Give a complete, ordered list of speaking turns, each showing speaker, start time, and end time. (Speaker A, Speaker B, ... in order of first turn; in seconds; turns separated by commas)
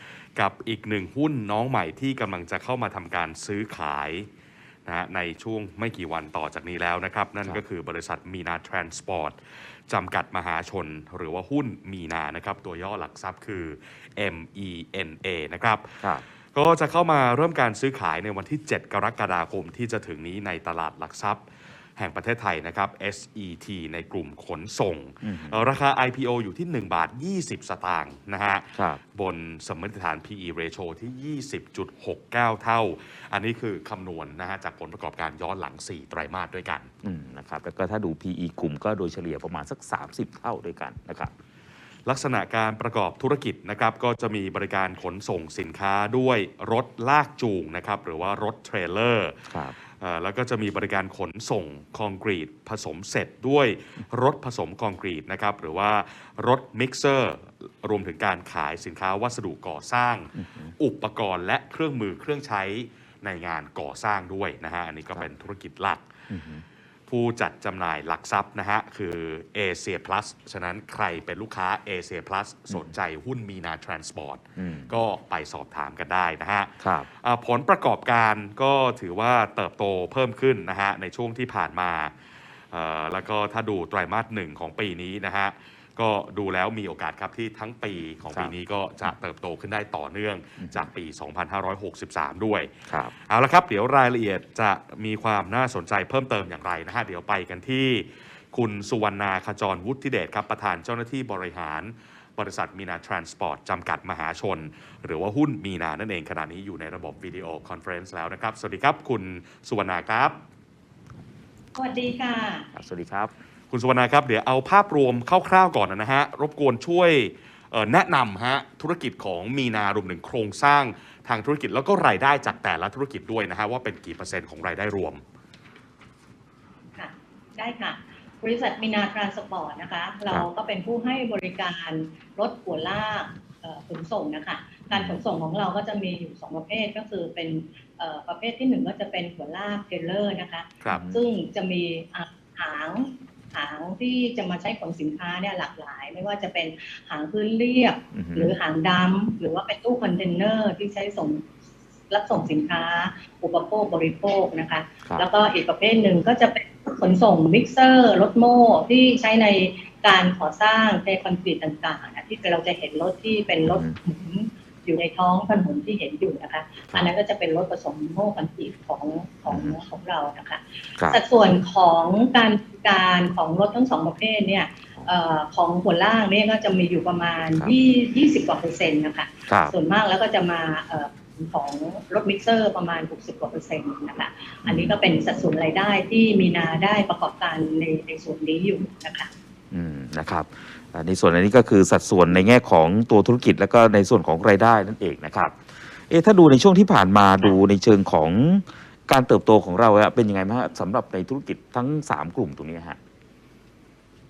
Speaker A: 0.4-4.3, Speaker A: 4.9-21.4, Speaker A: 22.0-36.9, Speaker B: 25.2-25.6, Speaker B: 28.8-29.0, Speaker B: 37.0-41.3, Speaker A: 42.1-66.1, Speaker B: 49.5-49.8, Speaker B: 60.4-60.7, Speaker B: 66.3-66.6, Speaker A: 67.1-82.1, Speaker B: 74.6-74.9, Speaker B: 76.8-77.1, Speaker A: 82.7-110.4, Speaker B: 90.6-90.9, Speaker B: 92.9-93.1, Speaker C: 111.8-112.7, Speaker B: 112.7-113.3, Speaker A: 113.7-125.2, Speaker C: 127.0-151.5, Speaker B: 134.9-135.2, Speaker B: 140.9-141.2, Speaker B: 148.1-148.6, Speaker C: 152.1-189.3, Speaker B: 163.7-164.0, Speaker B: 179.5-179.7, Speaker B: 184.7-185.0, Speaker B: 189.7-203.0